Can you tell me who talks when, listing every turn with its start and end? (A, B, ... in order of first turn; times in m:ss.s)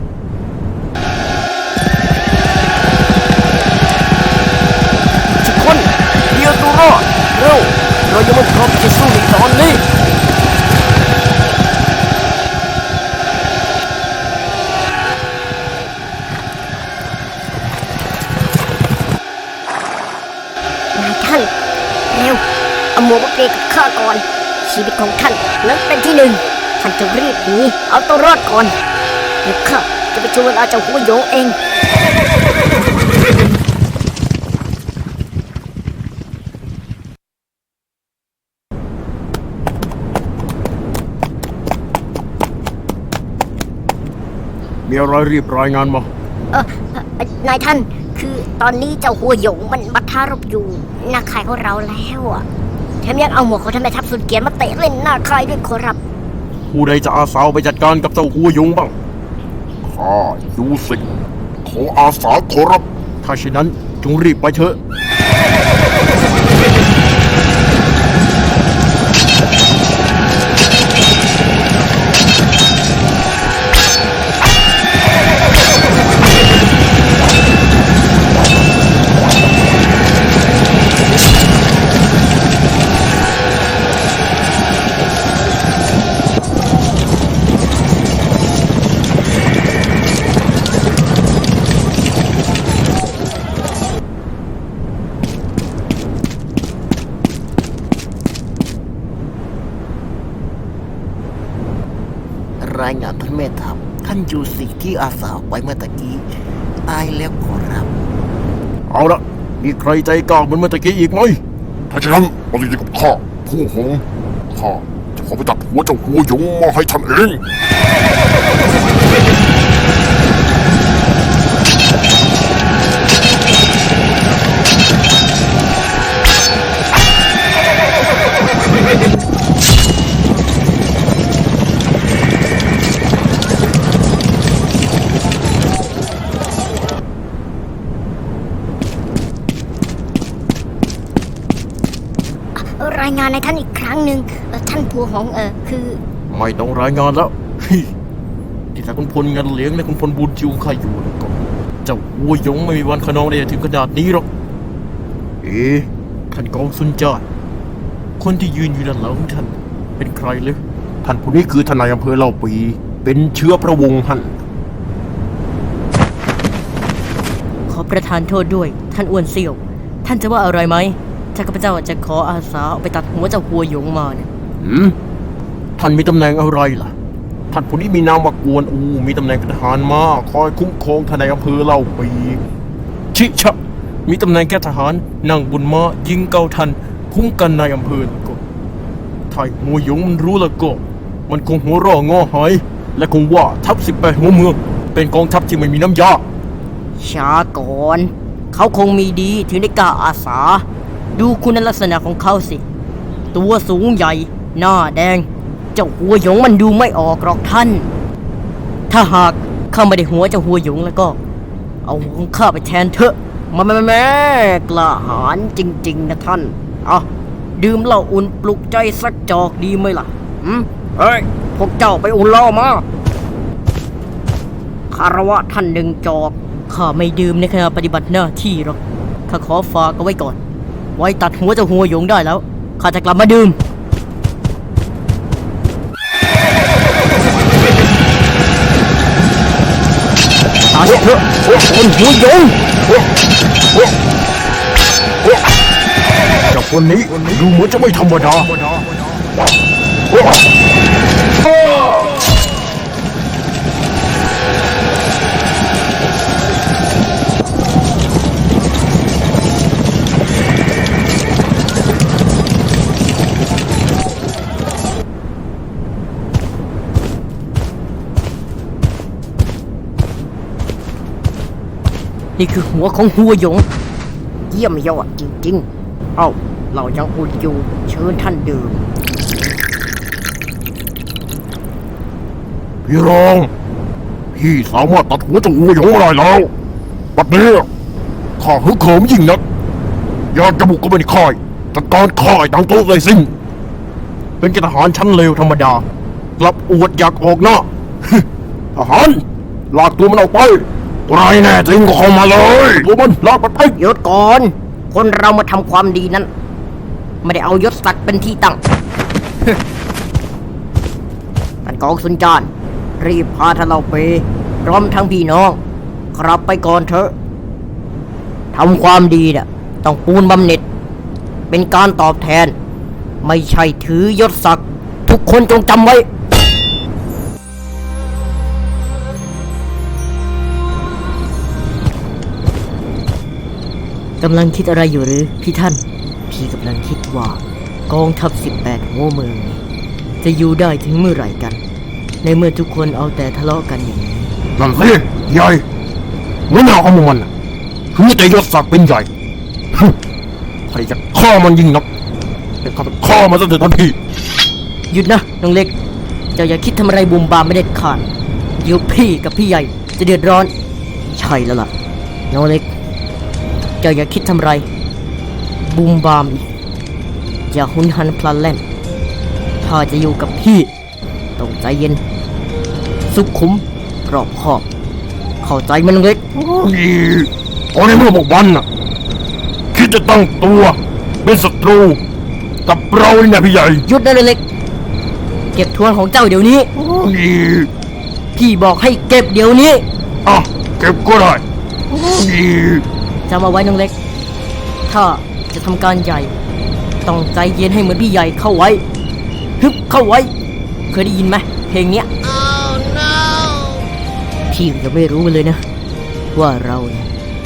0:05.4-0:09.8 A
0:20.9-0:21.5 B
0:22.1-0:22.4 B
0:23.0-0:28.7 B
0:23.2-0:24.1 A
0:25.4-0:26.0 A
0:27.7-0:28.6 A
0:29.4-0:31.5 B
0:29.9-0:31.2 A
0:44.8-0:46.1 C
0:46.5-0:52.4 B
0:53.0-0:56.0 B
0:56.7-0:58.9 C
0:59.8-1:01.1 C
1:01.6-1:04.8 C
1:42.6-1:46.3 A
1:46.8-1:47.9 A
1:48.9-1:51.4 C
1:51.9-1:57.4 D
2:22.6-2:26.0 B
2:26.3-2:27.9 C
2:28.7-2:34.3 C
2:35.4-2:37.2 C
2:38.2-2:44.4 C
2:47.7-2:54.3 A
2:54.6-2:55.0 C
2:55.8-2:56.9 C
2:57.5-3:02.4 C
3:03.1-3:08.4 C
3:09.3-3:16.3 C
3:17.0-3:22.6 A
3:23.3-3:27.9 A
3:28.9-3:31.2 A
3:31.8-3:42.8 A
3:44.9-3:50.4 A
3:50.9-3:53.6 A
4:00.7-4:02.5 A
4:06.5-4:08.9 C
4:32.4-4:33.7 A
4:34.4-4:38.8 A
4:42.8-4:43.5 C
4:44.3-4:46.5 C
4:47.1-4:47.7 C
4:48.4-4:49.4 C
4:50.3-4:53.3 C
4:54.4-4:55.8 C
4:56.4-5:03.8 C
5:03.8-5:06.3 A
5:07.2-5:08.6 A
5:11.6-5:15.6 A
5:16.1-5:17.1 A
5:18.5-5:20.6 A
5:21.5-5:22.6 A
5:23.2-5:26.1 A
5:34.2-5:39.6 A
5:40.2-5:41.6 A
5:42.2-5:44.3 A
5:44.6-5:45.6 C
5:46.5-5:47.3 C
5:47.9-5:49.1 C
5:50.7-5:51.9 C
5:52.6-5:54.0 C
5:54.9-5:55.7 A
5:56.3-5:58.0 A
5:58.6-6:00.5 A
6:01.1-6:01.7 A
6:02.3-6:02.7 A
6:03.8-6:04.7 A
6:05.6-6:06.4 A
6:07.5-6:08.6 A
6:09.6-6:10.7 A
6:11.4-6:12.0 A
6:13.0-6:14.6 A
6:15.4-6:16.2 A
6:16.4-6:18.7 C
6:19.7-6:22.0 C
6:22.6-6:23.8 C
6:23.8-6:24.4 A
6:25.5-6:26.7 A
6:26.8-6:27.7 C
6:28.3-6:29.8 A
6:30.2-6:32.8 C
6:33.3-6:33.9 A
6:34.8-6:36.3 A
6:37.0-6:38.8 A
6:39.6-6:40.3 A
6:40.9-6:42.1 A
6:42.6-6:43.4 B
6:44.5-6:45.6 A
6:46.3-6:47.1 A